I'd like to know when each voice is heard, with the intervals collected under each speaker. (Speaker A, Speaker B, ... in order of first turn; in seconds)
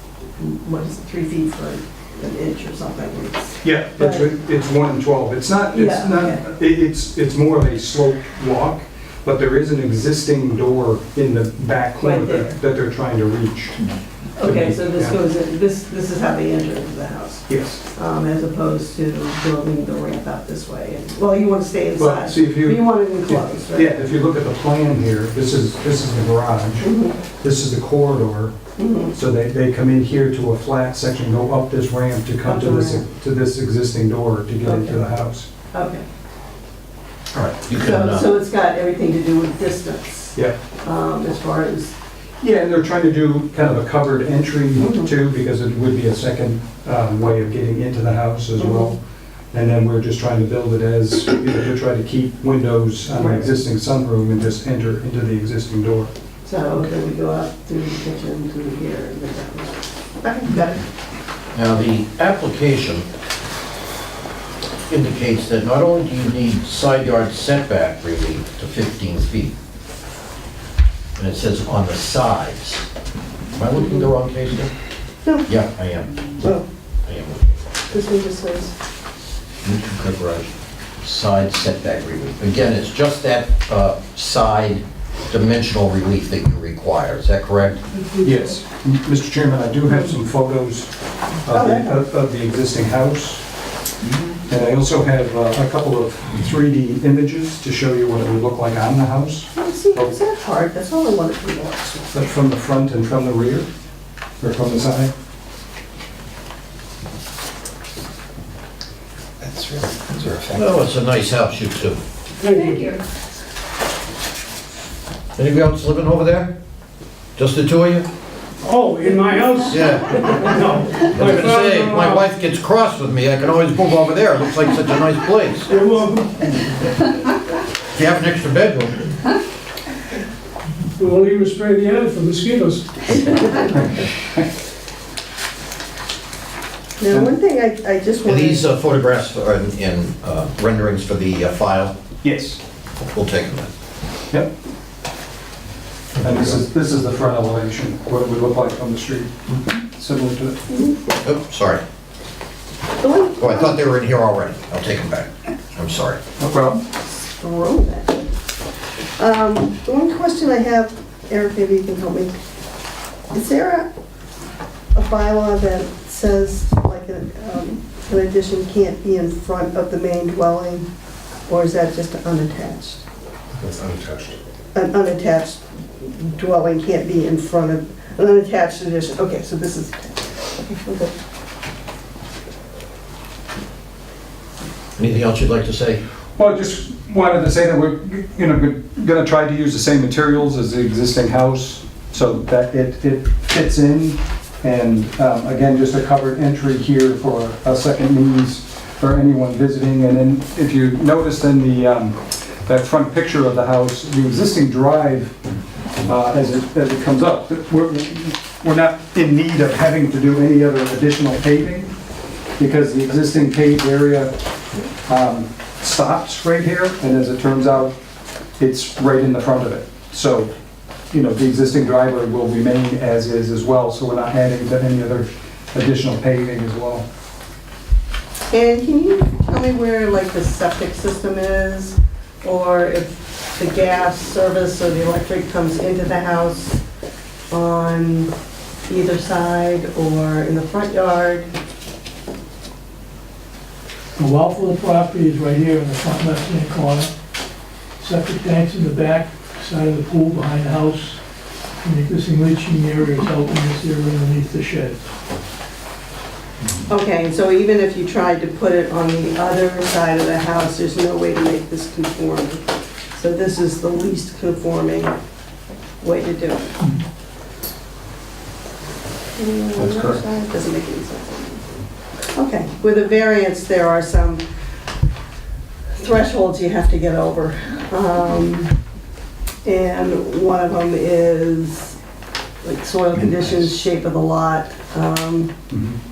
Speaker A: 0.4-4.3, 5.7-6.5, 12.0-12.6, 14.4-23.9, 26.8-27.2, 28.8-29.1, 32.5-33.0, 34.6-35.0, 35.7-36.0, 37.7-42.0, 44.8-45.1, 48.6-49.0, 53.2-53.5, 56.5-60.9, 77.9-78.7, 91.5-92.0, 99.5-102.1, 137.0-138.7, 150.7-151.0, 153.0-153.8, 156.9-158.3, 159.2-162.3, 163.3-163.9, 164.9-170.9, 171.5-173.0, 174.7-181.1, 228.5-236.8, 237.5-238.3, 238.9-241.5, 256.9-265.2, 266.0-266.8, 269.4-271.7, 272.3-274.4, 276.0-278.7, 279.6-282.0, 282.6-285.5
Speaker B: 3.6-13.8, 14.4-15.2, 17.5-17.8, 22.0-26.9, 27.4-28.6, 29.1-35.5, 42.4-49.0, 49.5-56.1, 88.2-90.9, 91.5-93.4, 94.5-100.1, 102.1-103.7, 104.4-105.1, 142.2-142.6, 146.2-150.8, 156.4-156.8, 186.4-205.4, 206.0-211.9, 212.6-214.3, 215.1-218.0, 218.6-220.5, 221.1-227.1, 285.7-286.0
Speaker C: 37.3-38.3, 61.5-63.0, 64.8-69.5, 71.2-72.9, 73.6-74.7, 75.5-76.5, 77.0-77.6, 79.6-80.5, 81.0-87.8, 110.5-112.0, 115.4-116.5, 117.4-118.1, 119.7-120.6, 121.1-125.7, 127.9-129.0, 138.3-142.0, 143.0-143.7, 151.2-151.8, 153.4-156.2, 185.0-186.0
Speaker D: 109.4-110.9, 173.6-174.4
Speaker E: 112.4-113.0, 118.6-122.2, 125.7-126.5, 131.0-133.0
Speaker F: 244.2-247.1, 248.0-251.2, 251.8-255.0